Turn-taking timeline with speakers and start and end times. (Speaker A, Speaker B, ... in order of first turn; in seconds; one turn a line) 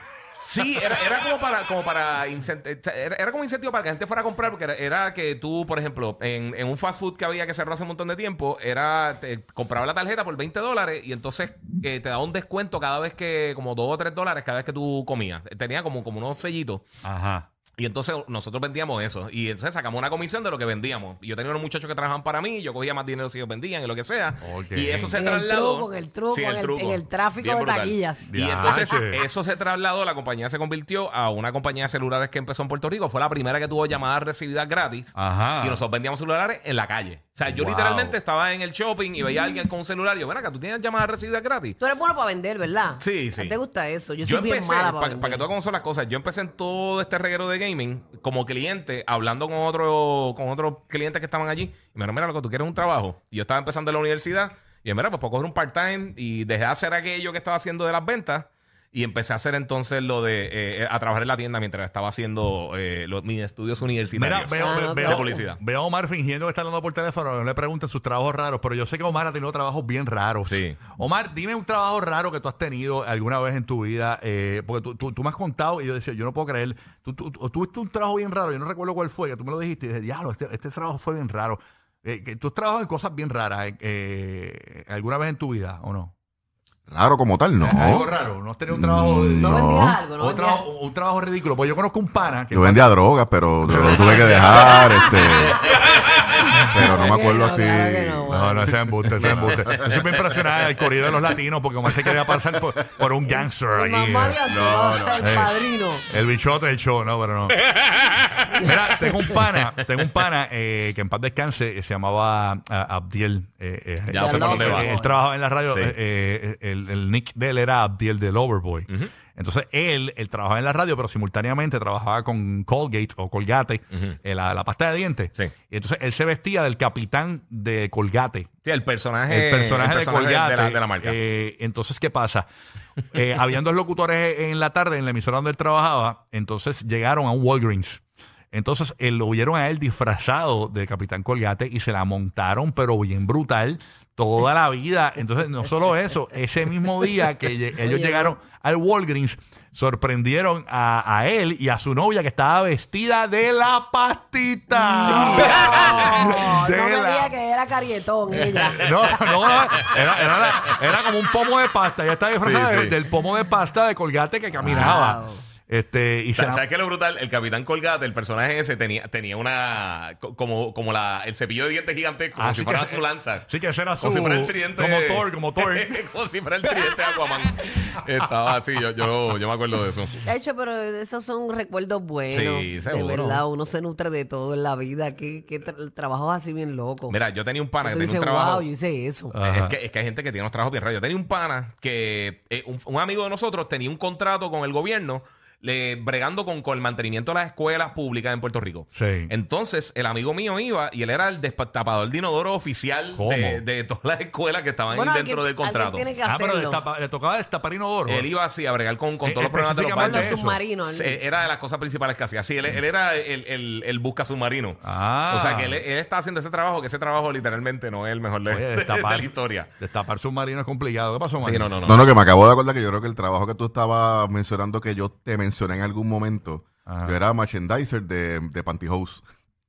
Speaker A: 0.4-0.9
Speaker B: 0.4-16.9
Speaker A: 17.0-17.5
Speaker B: 17.8-41.8
Speaker A: 24.4-25.1
Speaker C: 25.1-28.9
Speaker A: 28.3-29.2
Speaker A: 35.1-35.8
Speaker A: 37.4-38.2
Speaker C: 41.8-45.5
Speaker B: 43.0-43.5
Speaker B: 44.2-65.6
Speaker A: 64.1-86.1
Speaker C: 64.6-65.4
Speaker B: 70.5-70.8
Speaker D: 86.9-88.1
Speaker A: 87.6-92.9
Speaker D: 88.7-90.0
Speaker C: 89.4-90.7
Speaker D: 92.5-95.7
Speaker A: 93.6-95.8
Speaker A: 96.5-96.8
Speaker D: 96.7-98.3
Speaker C: 96.8-98.8
Speaker A: 98.3-104.4
Speaker D: 99.2-100.0
Speaker C: 103.7-106.0
Speaker D: 104.5-105.2
Speaker A: 105.2-105.5
Speaker A: 106.1-107.6
Speaker B: 108.0-108.6
Speaker A: 108.5-128.5
Speaker B: 114.1-114.9
Speaker C: 114.2-115.2
Speaker B: 115.7-116.0
Speaker B: 123.9-124.2
Speaker B: 128.6-131.2
Speaker A: 129.3-132.5
Speaker A: 133.1-138.0
Speaker A: 138.5-157.3
Speaker C: 147.8-148.3
Speaker C: 155.0-158.9
Speaker B: 155.1-156.2
Speaker A: 158.5-166.6
Speaker B: 159.8-160.8
Speaker B: 162.4-163.0
Speaker B: 164.6-165.0
Speaker C: 164.6-165.4
Speaker B: 166.4-173.5
Speaker A: 172.3-175.9
Speaker B: 174.0-180.3
Speaker C: 180.2-187.2
Speaker B: 182.3-183.4
Speaker B: 187.1-188.7
Speaker C: 187.8-189.3
Speaker A: 189.3-189.8
Speaker B: 189.4-206.1
Speaker A: 198.9-199.3
Speaker A: 203.1-203.6
Speaker C: 204.9-206.8
Speaker A: 206.2-208.3
Speaker B: 208.1-219.7
Speaker A: 209.2-210.6
Speaker C: 210.0-211.2
Speaker A: 214.8-215.8
Speaker A: 218.5-221.7
Speaker B: 221.4-222.1
Speaker D: 221.8-229.2
Speaker A: 226.8-227.2